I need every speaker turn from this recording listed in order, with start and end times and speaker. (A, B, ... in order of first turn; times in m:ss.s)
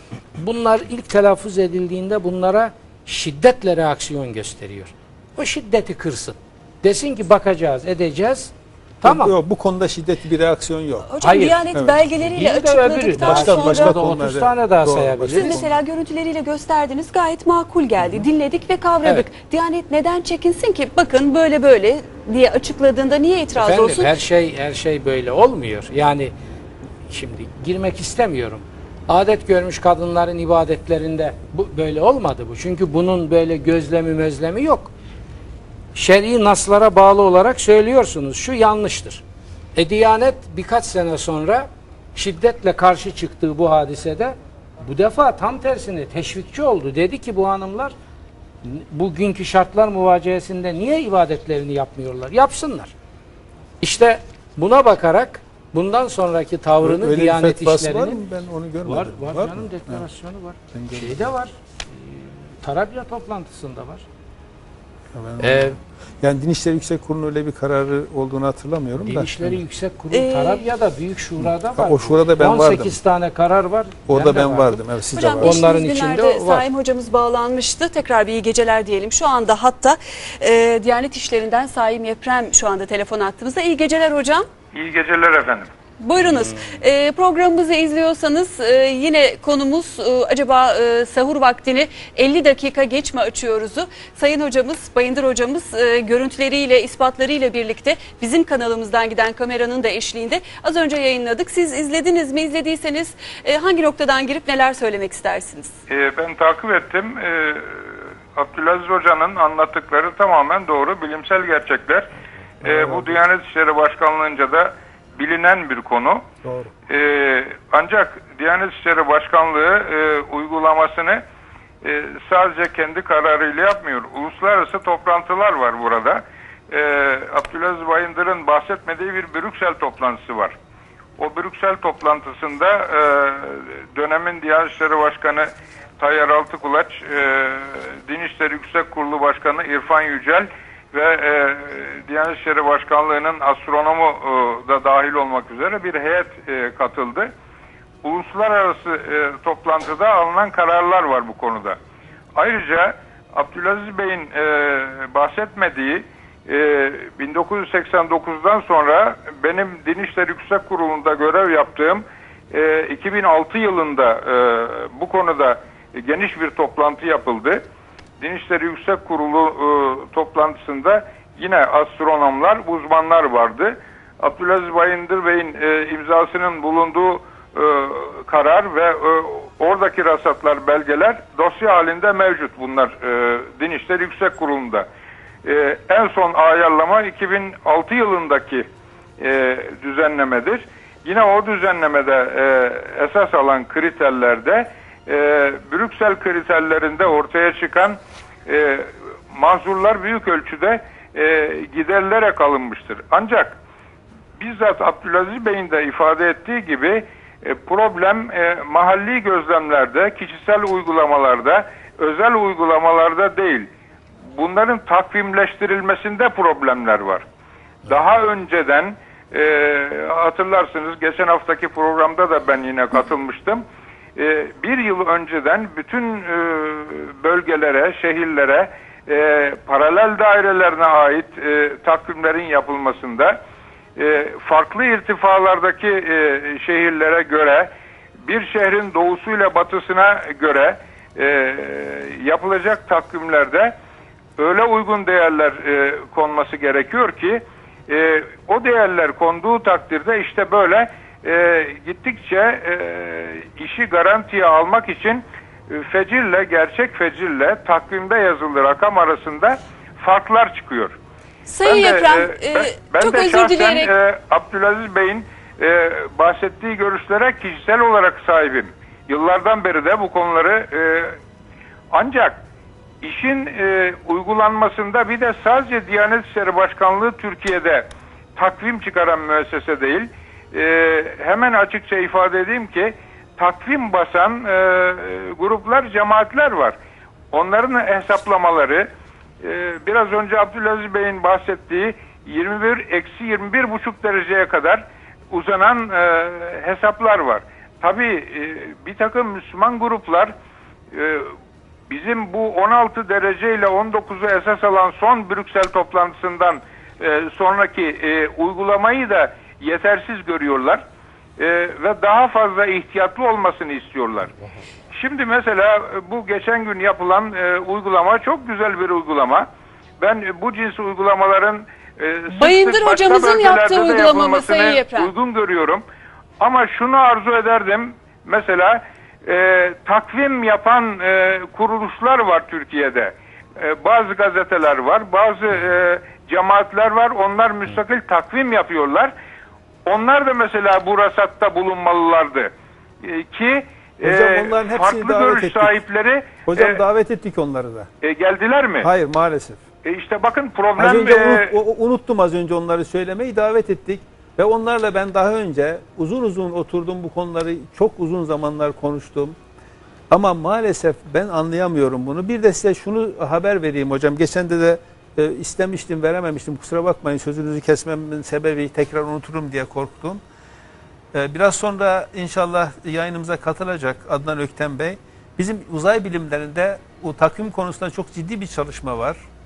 0:00.4-0:09.3 A
0:09.0-0:11.1 B
0:11.1-0:14.0 C
0:11.2-0:11.6 A
0:11.7-0:12.0 B
0:12.3-0:15.6 A
0:13.2-0:15.8 B
0:15.3-0:24.1 C
0:23.6-0:26.3 A
0:27.1-0:34.9 A
0:35.9-0:39.2 A
0:39.7-0:47.9 A
0:48.6-0:52.9 A
0:53.8-0:58.2 A
0:56.8-1:00.0 B
0:58.8-1:04.0 A
1:00.7-1:01.3 B
1:05.1-1:09.6 B
1:05.4-1:05.8 A
1:09.0-1:14.8 A
1:10.1-1:10.6 C
1:11.4-1:13.0 B
1:14.1-1:15.6 B
1:15.1-1:24.5 C
1:15.4-1:16.6 A
1:24.7-1:25.7 D
1:26.0-1:45.7 C
1:45.9-1:52.1 D
1:52.6-1:53.2 B
1:52.6-1:56.2 D
1:56.4-1:56.7 B
1:56.9-2:01.2 D
2:01.8-2:10.6 D
2:11.2-2:27.3 D
2:28.0-2:31.8 D
2:32.3-2:47.6 D
2:48.2-3:04.9 D
3:05.4-3:08.7 D
3:09.2-3:23.6 D
3:24.4-3:33.7 D
3:34.3-3:37.2 D
3:37.9-3:43.6 D
3:44.2-3:53.4 D
3:54.0-3:57.7 D
3:58.2-4:03.7 D
4:04.4-4:21.0 D
4:21.5-4:23.9 C
4:21.6-4:31.2 D
4:31.9-4:32.4 D
4:33.0-4:46.8 D
4:47.3-4:48.9 D
4:49.4-5:00.3 D
5:00.9-5:01.3 D
5:01.9-5:10.8 D
5:11.4-5:14.3 D
5:14.9-5:19.5 D
5:20.0-5:25.8 D
5:22.4-5:25.1 C
5:26.4-5:39.1 D
5:39.8-5:42.5 D
5:43.0-5:46.8 D
5:44.0-5:45.8 B
5:46.4-5:47.9 B
5:48.0-5:48.9 D
5:48.8-5:49.6 B
5:49.8-5:51.6 D
5:50.8-5:59.4 B
6:00.1-6:10.2 B
6:11.1-6:19.2 B